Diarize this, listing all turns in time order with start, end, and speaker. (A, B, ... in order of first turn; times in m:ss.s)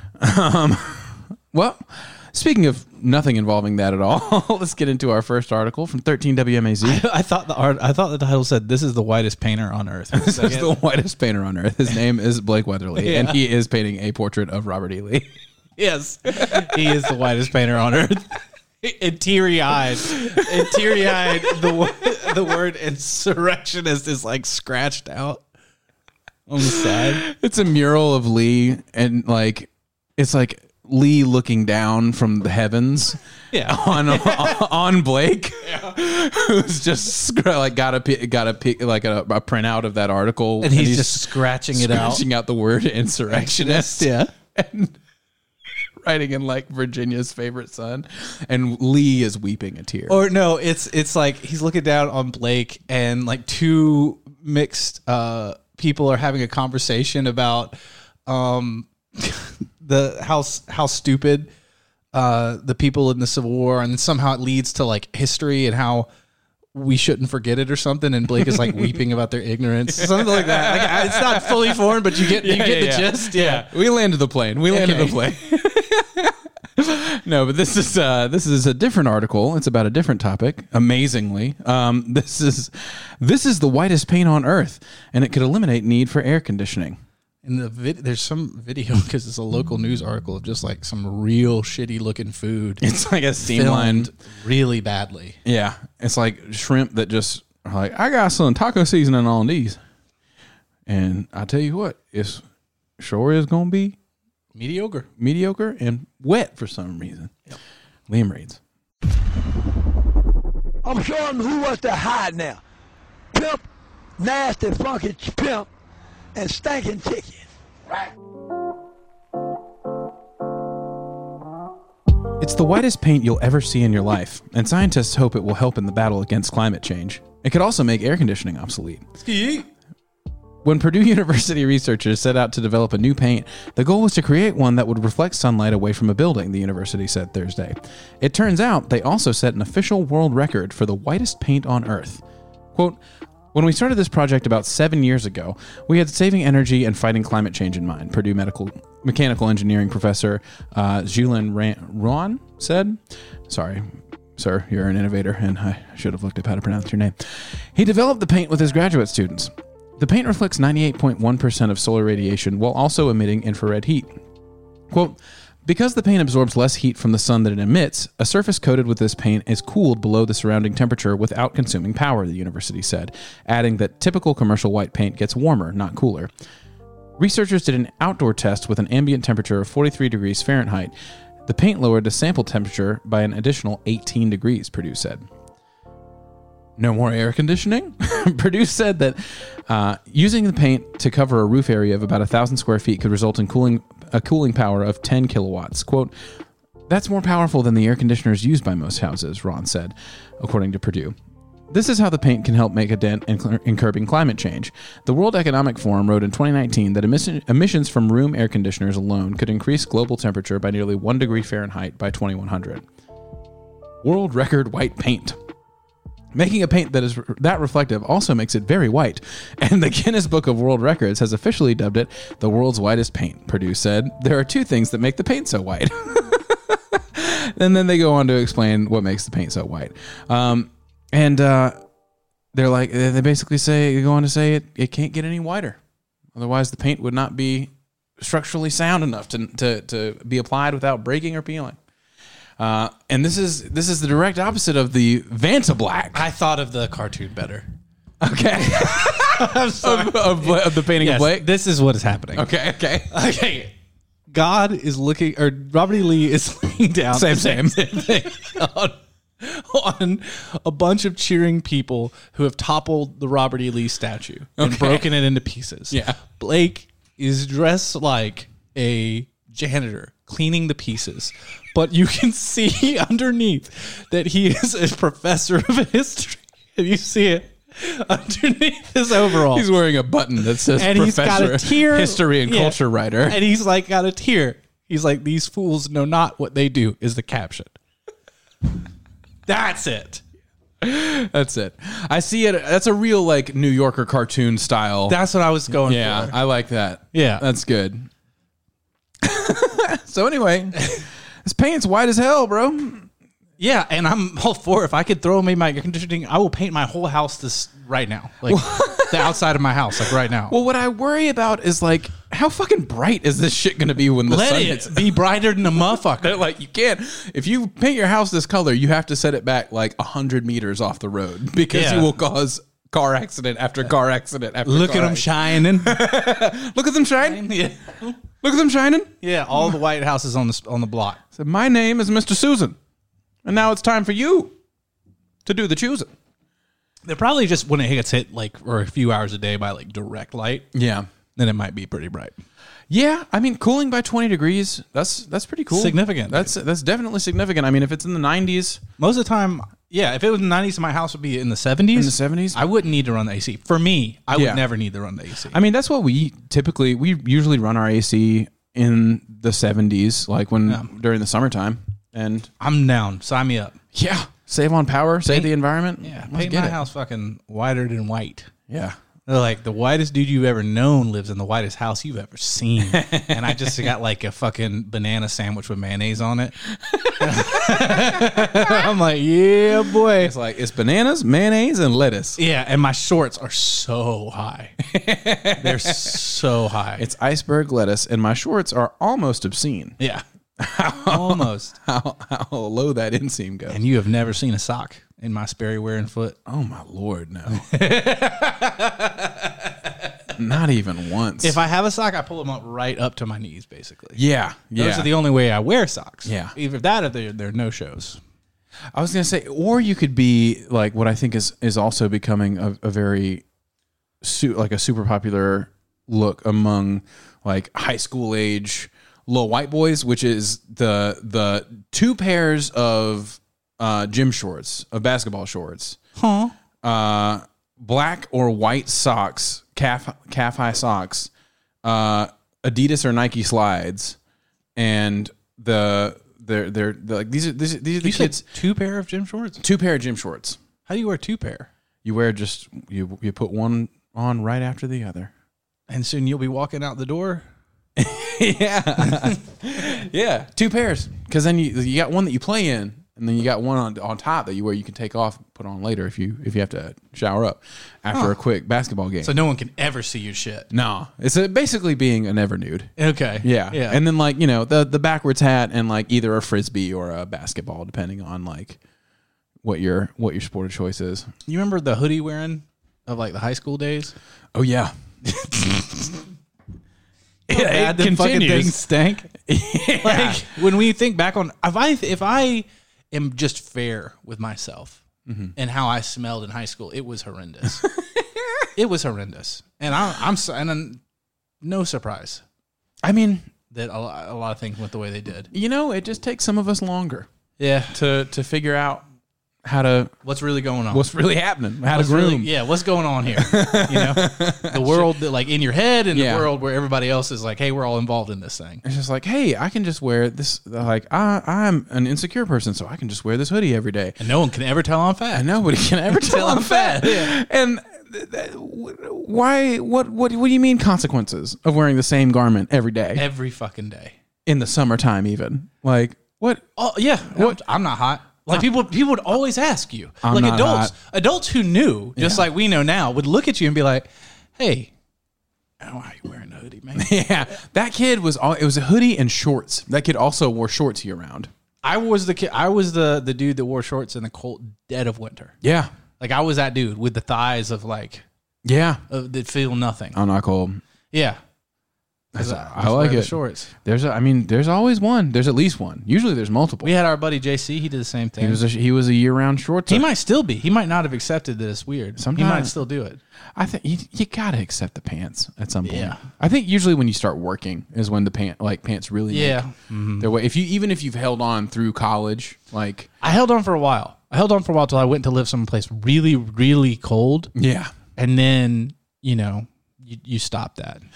0:00.2-0:07.0 A
0:06.8-0:10.8 B
0:10.1-0:15.3 A
0:13.0-0:13.4 B
0:15.8-0:25.4 B
0:16.4-0:16.7 A
0:20.1-0:21.7 A
0:26.5-0:27.2 B
0:26.7-0:45.0 A
0:33.5-0:34.6 B
0:35.6-0:35.9 B
0:40.6-0:42.2 B
0:43.3-0:44.3 B
0:46.0-0:50.2 A
0:50.1-1:01.5 B
1:02.1-1:06.1 B
1:06.7-1:13.7 B
1:08.4-1:09.0 A
1:09.9-1:27.0 A
1:14.7-1:15.2 B
1:27.4-1:32.8 B
1:32.8-1:34.1 A
1:33.4-1:35.4 B
1:35.4-1:39.8 A
1:40.9-1:42.4 A
1:43.0-1:44.0 A
1:44.5-1:45.1 B
1:45.2-1:47.4 A
1:48.1-1:48.6 A
1:50.8-1:52.6 C
1:53.3-1:53.6 C
1:54.2-1:55.7 C
1:56.3-1:57.4 C
2:02.4-2:09.1 A
2:09.2-2:09.7 B
2:10.6-2:22.2 A
2:22.7-2:23.0 A
2:23.5-2:44.1 A
2:44.9-2:56.3 A
2:57.2-3:00.9 A
3:01.4-3:05.2 A
3:06.8-3:16.1 A
3:16.9-3:21.1 A
3:21.7-3:32.8 A
3:34.0-3:35.4 A
3:36.3-3:51.8 A
3:52.5-3:55.8 A
3:56.3-4:01.8 A
4:02.6-4:06.2 A
4:06.1-4:07.7 B
4:08.2-4:11.5 A
4:08.6-4:12.5 B
4:12.3-4:13.1 A
4:13.1-4:13.7 B
4:14.3-4:39.7 B
4:17.1-4:18.4 A
4:24.6-4:25.1 A
4:25.9-4:26.2 A
4:39.2-4:43.4 A
4:40.6-4:47.8 B
4:49.4-4:50.2 B
4:50.8-4:55.2 A
4:55.1-4:56.4 B
4:55.8-4:58.1 A
4:57.1-4:57.4 B
4:59.2-5:03.1 A
5:03.6-5:10.5 B
5:08.4-5:09.4 A
5:10.5-5:15.2 A
5:14.3-5:16.4 B
5:15.8-5:27.5 A
5:21.7-5:22.1 B
5:24.6-5:26.0 B
5:27.2-5:28.2 B
5:28.4-5:29.1 A
5:29.2-5:31.2 B
5:31.3-5:32.8 A
5:33.4-5:34.5 A
5:35.4-5:36.1 A
5:37.0-5:40.7 B
5:40.7-5:41.1 A
5:41.4-5:42.4 B
5:42.9-5:48.8 A
5:45.7-5:46.5 B
5:49.0-5:55.6 B
5:51.9-5:52.6 A
5:54.3-5:54.6 A
5:55.5-6:02.5 A
6:02.6-6:03.8 B
6:03.9-6:06.8 A
6:05.2-6:08.5 B
6:08.7-6:09.0 A
6:09.3-6:16.6 B
6:12.9-6:13.8 A
6:16.8-6:18.8 A
6:17.2-6:20.3 B
6:20.1-6:22.4 A
6:22.4-6:24.8 B
6:24.8-6:26.2 A
6:25.6-6:27.0 B
6:27.0-6:30.0 A
6:30.0-6:30.2 B
6:30.6-6:33.8 A
6:31.0-6:31.7 B
6:33.7-6:36.4 B
6:36.5-6:37.7 A
6:37.5-6:40.3 B
6:40.3-6:41.6 A
6:41.4-6:44.2 B
6:44.2-6:45.1 A
6:44.7-6:48.2 B
6:46.2-6:46.5 A
6:48.9-6:53.4 A
6:54.2-7:06.0 A
7:06.2-7:06.5 B
7:06.8-7:11.3 A
7:11.8-7:14.2 A
7:14.8-7:18.4 A
7:18.0-7:19.6 B
7:19.6-7:20.6 A
7:20.9-7:21.7 B
7:22.0-7:25.3 A
7:25.9-7:27.4 B
7:28.0-7:39.3 A
7:29.1-7:29.3 B
7:39.2-7:40.7 B
7:40.7-7:48.8 A
7:43.0-7:44.0 B
7:49.6-7:51.3 A
7:51.4-7:54.1 B
7:54.5-7:56.2 A
7:57.5-7:58.8 A
7:57.5-7:59.3 B
7:59.4-8:00.5 A
8:00.0-8:05.0 B
8:05.3-8:05.5 A
8:05.6-8:07.8 B
8:08.2-8:08.6 A
8:08.8-8:11.0 B
8:11.6-8:12.4 B
8:13.0-8:13.5 A
8:13.7-8:15.5 B
8:15.5-8:17.3 A
8:17.6-8:17.9 B
8:17.9-8:19.0 A
8:19.6-8:20.1 A
8:20.2-8:21.0 B
8:20.9-8:22.5 A
8:21.9-8:28.8 B
8:23.3-8:25.1 A
8:26.1-8:26.5 A
8:28.8-8:34.2 A
8:34.2-8:37.4 B
8:35.3-8:43.2 A
8:43.2-8:44.1 B
8:44.4-8:46.6 A
8:46.8-8:54.9 B
8:47.3-8:47.6 A
8:50.2-8:50.9 A
8:52.2-8:52.5 A
8:55.8-8:57.1 B
8:57.0-9:01.5 A
9:01.8-9:05.5 B
9:05.6-9:05.9 A
9:06.2-9:08.2 B
9:08.6-9:09.0 A
9:09.1-9:10.2 B
9:10.1-9:10.8 A
9:11.1-9:11.4 B
9:12.3-9:13.7 B
9:12.3-9:16.9 A
9:16.8-9:18.6 B
9:18.4-9:20.1 A
9:19.9-9:23.2 B
9:22.2-9:22.8 A
9:23.6-9:29.6 A
9:25.8-9:26.2 B
9:29.3-9:30.3 B
9:30.2-9:33.1 A
9:33.2-9:37.5 B
9:37.5-9:37.9 A
9:38.2-9:41.0 B